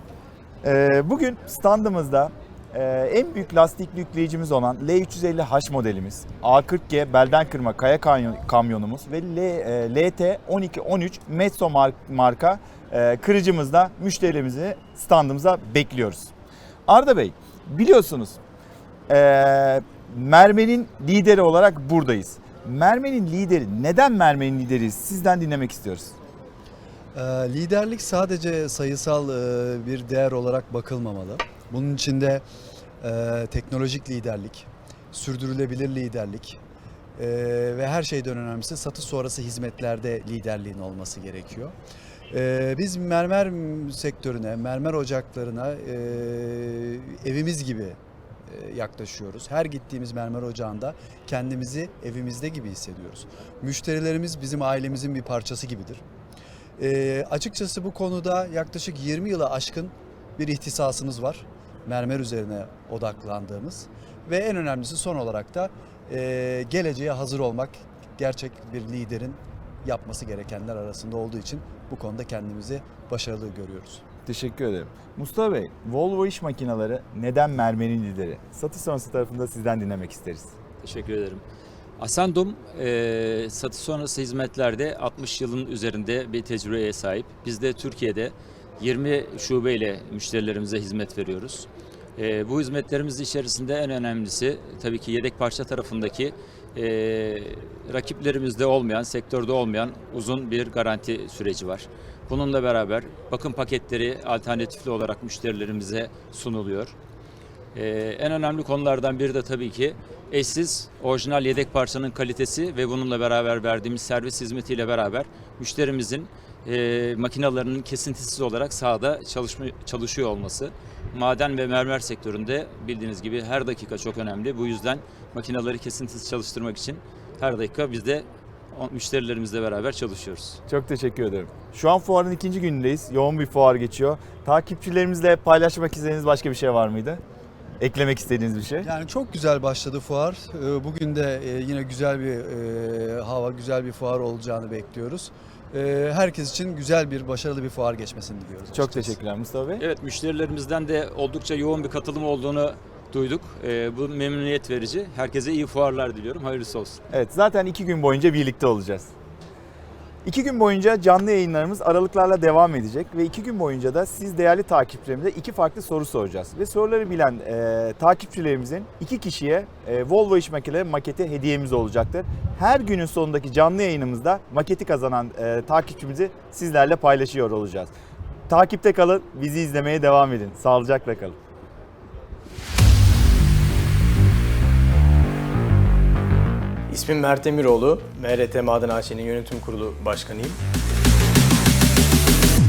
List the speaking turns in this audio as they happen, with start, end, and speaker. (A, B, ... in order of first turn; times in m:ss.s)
0:00.6-0:16.3 A
0:16.9-0:18.4 A
0:19.1-0:26.1 A
0:27.1-0:32.4 B
0:33.0-0:36.6 B
0:37.2-0:41.7 B
0:42.3-0:56.0 B
0:56.8-1:14.0 B
1:14.3-1:20.5 A
1:20.8-1:21.4 C
1:22.0-1:47.0 C
1:47.7-2:10.6 C
2:10.7-2:17.2 A
2:17.8-2:18.9 A
2:18.8-2:29.2 B
2:28.7-2:29.8 A
2:29.8-2:37.0 C
2:37.1-2:39.1 A
2:40.2-2:57.9 A
2:58.5-3:01.4 A
3:06.9-3:10.6 D